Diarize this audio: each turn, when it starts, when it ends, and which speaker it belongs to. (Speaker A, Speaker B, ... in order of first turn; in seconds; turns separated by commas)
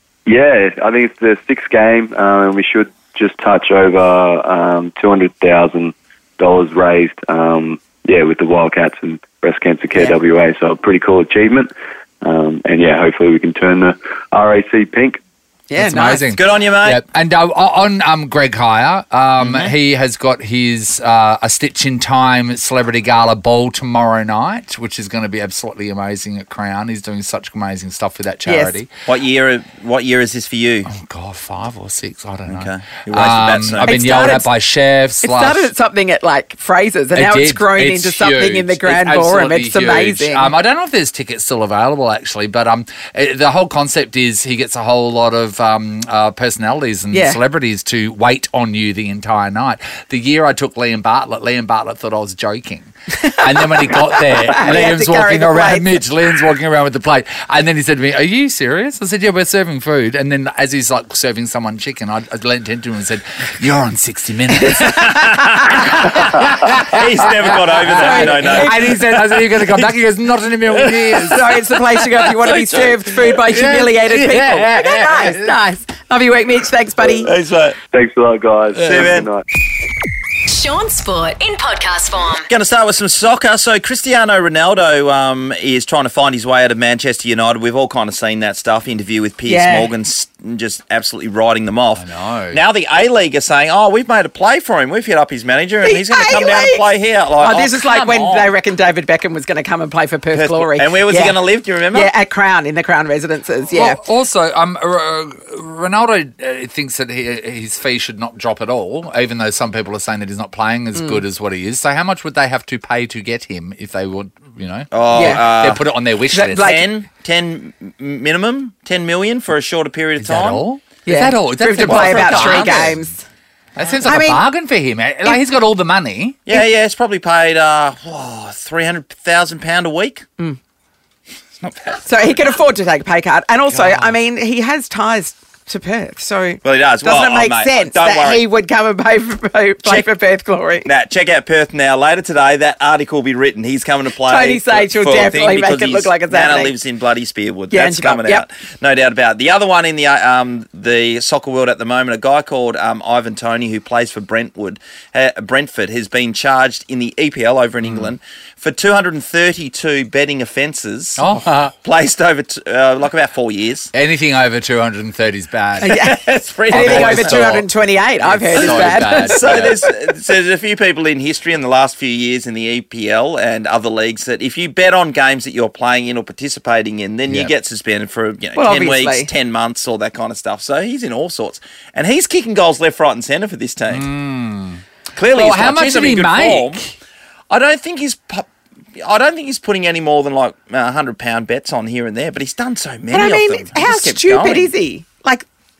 Speaker A: 0.3-11.7, Speaker A: 12.2-15.2, Speaker B: 15.7-16.3, Speaker C: 15.8-28.9, Speaker D: 16.3-17.0, Speaker D: 19.4-19.7, Speaker B: 28.5-28.8, Speaker D: 29.1-30.9, Speaker C: 30.9-35.7, Speaker D: 32.5-34.4, Speaker B: 33.8-34.5, Speaker B: 35.2-40.5, Speaker C: 37.1-71.5, Speaker B: 47.1-47.4, Speaker B: 53.2-55.9, Speaker D: 65.2-65.9, Speaker D: 66.9-69.9, Speaker B: 68.0-69.0, Speaker D: 70.7-71.4, Speaker B: 71.3-77.3, Speaker C: 73.5-75.5, Speaker D: 77.2-77.8, Speaker A: 77.9-79.4, Speaker D: 78.8-79.3, Speaker E: 80.5-82.5, Speaker D: 82.5-98.5, Speaker B: 89.5-89.9, Speaker C: 92.0-92.6, Speaker B: 95.8-96.8, Speaker B: 97.4-104.0, Speaker D: 100.3-102.1, Speaker C: 103.7-116.7, Speaker B: 111.0-111.2, Speaker D: 114.9-115.8, Speaker B: 115.1-115.4, Speaker B: 116.3-116.9, Speaker D: 116.6-120.7, Speaker C: 120.2-123.0, Speaker B: 121.0-123.2, Speaker D: 121.8-122.9, Speaker C: 123.8-126.4, Speaker B: 124.0-124.4, Speaker D: 126.5-130.3, Speaker D: 131.6-132.3, Speaker B: 132.0-140.9, Speaker C: 133.7-134.2, Speaker D: 136.6-138.4, Speaker D: 140.8-161.3, Speaker B: 144.2-146.8, Speaker B: 147.7-148.5, Speaker C: 157.8-158.1, Speaker C: 161.2-161.7, Speaker D: 161.8-163.9, Speaker C: 163.9-166.0, Speaker B: 165.8-169.4, Speaker D: 165.9-167.6, Speaker C: 166.7-167.6, Speaker C: 168.2-169.8, Speaker D: 168.6-184.1, Speaker B: 178.6-179.3, Speaker C: 183.9-186.9, Speaker D: 185.2-186.8, Speaker D: 187.5-194.7, Speaker B: 193.1-195.5